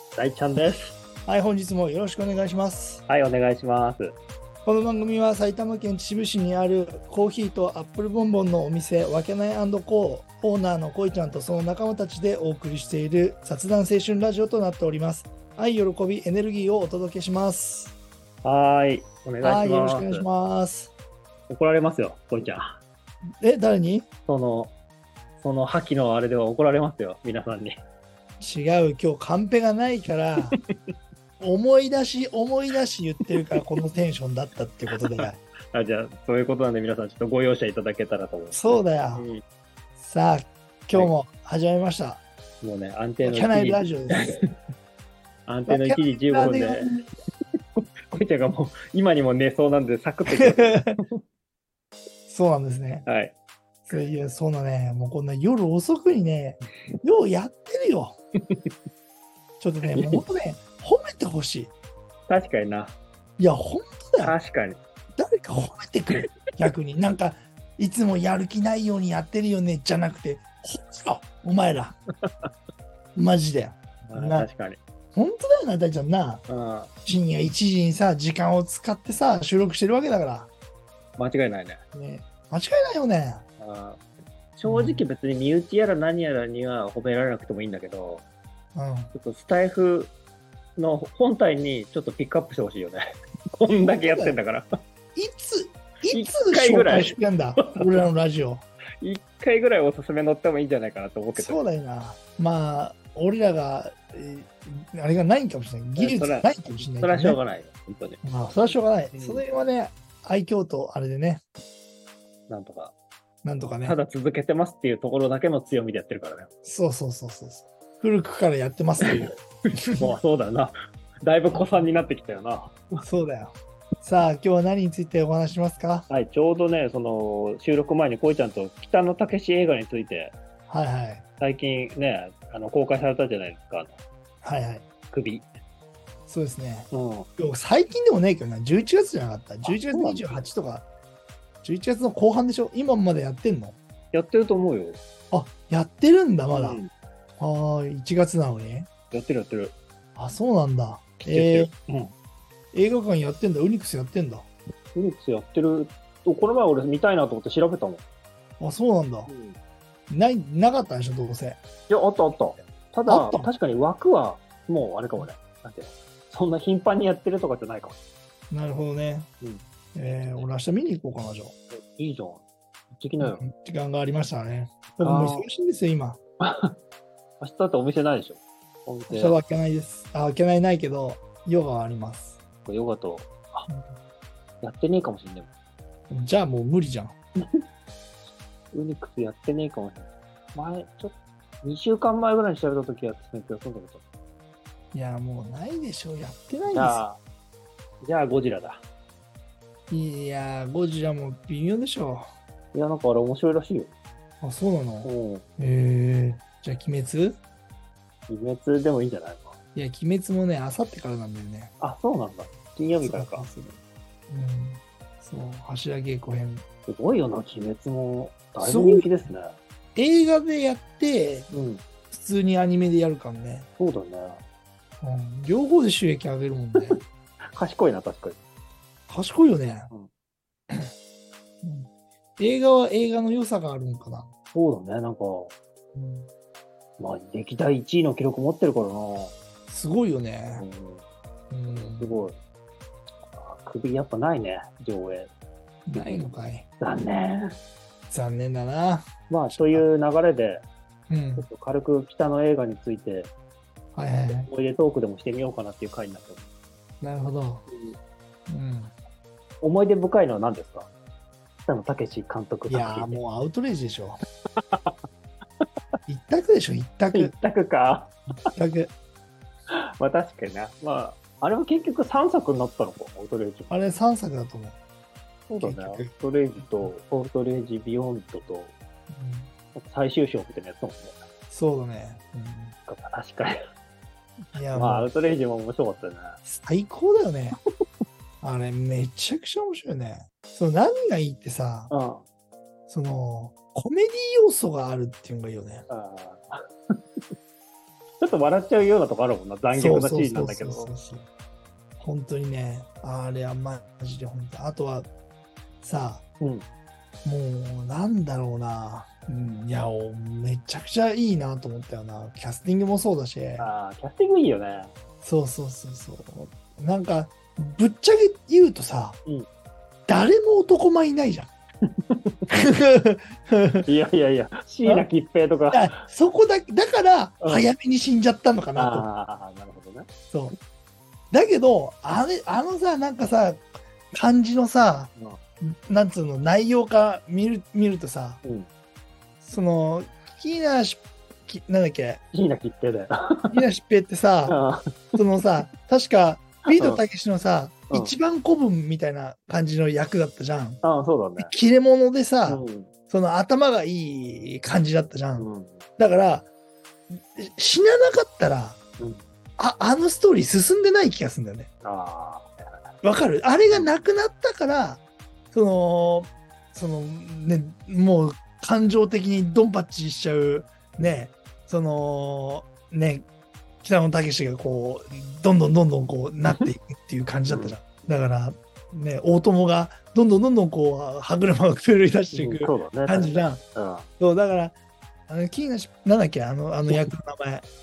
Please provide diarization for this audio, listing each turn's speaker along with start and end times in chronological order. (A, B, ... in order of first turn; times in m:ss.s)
0:00.2-0:01.0 A
0:01.3-0:03.0 B
0:03.1-0:04.2 A
0:04.6-0:18.0 B
0:18.4-0:20.3 A
0:19.4-0:20.9 B
0:21.5-0:22.8 A
0:23.4-0:24.1 B
0:24.3-0:24.8 A
0:25.4-0:27.8 A
0:28.4-0:30.6 B
0:31.4-0:35.4 B
0:35.2-0:39.4 A
0:38.5-0:39.3 B
0:40.0-0:42.2 B
0:42.6-0:44.4 A
0:43.2-0:44.4 B
0:45.5-0:47.0 A
0:45.7-0:47.1 B
0:47.8-0:51.2 A
0:50.4-0:51.0 B
0:52.3-0:53.1 B
0:53.1-0:53.4 A
0:53.9-0:58.2 B
0:59.6-1:01.7 B
0:59.9-1:00.2 A
1:02.3-1:03.0 A
1:03.4-1:04.4 B
1:04.2-1:04.8 A
1:05.2-1:12.0 B
1:13.2-1:14.5 B
1:14.1-1:14.8 A
1:15.2-1:16.4 B
1:16.5-1:16.9 A
1:17.0-1:20.5 B
1:21.2-1:21.8 A
1:21.9-1:23.4 B
1:23.6-1:24.0 A
1:24.6-1:28.3 A
1:24.6-1:25.0 B
1:28.8-1:29.1 B
1:29.1-1:30.1 A
1:30.8-1:33.1 A
1:33.6-1:34.7 A
1:33.8-1:34.4 B
1:35.2-1:38.6 B
1:36.1-1:38.0 A
1:39.0-1:41.6 A
1:41.4-1:47.4 B
1:46.0-1:48.2 A
1:48.2-1:51.4 B
1:49.1-1:49.4 A
1:52.5-1:52.9 A
1:53.4-1:54.0 B
1:53.8-1:56.5 A
1:56.6-2:00.2 B
1:59.9-2:02.8 A
2:01.5-2:01.9 B
2:03.0-2:06.1 B
2:06.1-2:10.4 A
2:10.7-2:11.2 B
2:11.4-2:14.0 A
2:14.4-2:14.8 B
2:15.1-2:15.5 A
2:16.3-2:20.9 B
2:16.9-2:17.3 A
2:19.6-2:20.4 A
2:21.6-2:23.8 B
2:24.1-2:25.0 A
2:25.3-2:26.8 B
2:26.5-2:26.9 A
2:27.4-2:28.9 B
2:29.1-2:29.8 A
2:30.2-2:31.7 B
2:31.2-2:32.1 A
2:32.7-2:34.5 B
2:35.0-2:38.0 A
2:38.6-2:39.3 B
2:39.3-2:39.6 A
2:40.1-2:41.6 B
2:41.9-2:48.0 A
2:43.1-2:43.5 B
2:48.5-2:49.3 B
2:50.0-2:51.5 B
2:51.7-2:53.4 A
2:53.2-2:56.2 B
2:55.0-2:55.5 A
2:56.4-2:56.7 A
2:57.4-2:59.4 A
2:59.1-3:02.4 B
3:02.6-3:03.7 A
3:04.6-3:05.5 A
3:06.1-3:07.2 B
3:08.7-3:14.0 A
3:14.9-3:17.0 B
3:16.7-3:17.2 A
3:18.0-3:18.8 A
3:19.9-3:22.3 B
3:22.7-3:23.9 A
3:24.4-3:27.4 B
3:25.0-3:25.5 A
3:28.3-3:29.6 A
3:29.8-3:31.7 B
3:31.8-3:33.5 A
3:33.0-3:36.6 B
3:36.9-3:39.6 A
3:38.6-3:39.1 B
3:40.0-3:41.5 B
3:41.5-3:41.8 A
3:42.1-3:43.7 B
3:43.8-3:44.4 A
3:45.0-3:47.0 B
3:47.6-3:48.4 A
3:49.1-3:49.9 B
3:51.6-3:54.3 B
3:54.5-3:55.6 A
3:55.9-3:56.3 B
3:57.0-3:59.4 A
3:59.7-4:00.7 B
4:00.6-4:01.0 A
4:01.5-4:02.2 B
4:01.7-4:02.4 A
4:03.3-4:05.3 A
4:05.9-4:06.7 B
4:05.9-4:07.6 A
4:08.1-4:09.9 B
4:09.3-4:10.6 A
4:11.1-4:11.5 B
4:11.4-4:13.3 A
4:14.0-4:14.5 B
4:14.3-4:16.5 A
4:17.0-4:17.7 B
4:18.5-4:18.9 B
4:19.6-4:20.9 A
4:21.7-4:23.2 A
4:22.7-4:24.2 B
4:26.1-4:27.3 B
4:27.1-4:28.1 A
4:28.5-4:28.9 B
4:29.7-4:34.0 A
4:33.7-4:34.8 B
4:35.5-4:38.8 A
4:35.6-4:36.9 B
4:39.1-4:39.5 B
4:39.8-4:41.3 A
4:41.5-4:42.8 B
4:42.9-4:43.6 A
4:44.5-4:45.1 B
4:44.7-4:46.4 A
4:46.4-4:47.6 B
4:48.4-4:51.9 B
4:51.9-4:52.2 A
4:52.9-4:55.9 B
4:55.9-4:56.6 A
4:58.2-5:00.9 A
4:59.7-5:01.2 B
5:02.0-5:05.1 B
5:05.8-5:06.2 B
5:07.2-5:13.7 B
5:13.6-5:14.9 A
5:15.2-5:19.2 B
5:20.1-5:21.5 B
5:22.1-5:22.4 A
5:22.5-5:23.9 B
5:23.9-5:26.0 A
5:25.7-5:29.1 B
5:27.4-5:27.7 A
5:28.8-5:30.1 A
5:30.3-5:30.6 B
5:31.3-5:38.4 B
5:38.4-5:38.7 A
5:39.4-5:42.2 B
5:42.3-5:43.6 A
5:43.5-5:44.6 B
5:44.5-5:44.8 A
5:45.2-5:50.8 B
5:46.7-5:47.0 A
5:47.9-5:48.2 A
5:50.8-5:51.5 A
5:51.4-5:56.5 B
5:52.5-5:52.9 A
5:55.4-5:55.8 A
5:57.1-5:58.8 B
5:59.0-5:59.2 A
5:59.6-6:01.7 B
6:01.8-6:02.9 A
6:03.0-6:13.2 B
6:03.7-6:04.0 A
6:13.8-6:23.6 B
6:17.5-6:17.8 A
6:22.3-6:24.1 A
6:24.2-6:24.8 B
6:25.3-6:27.6 B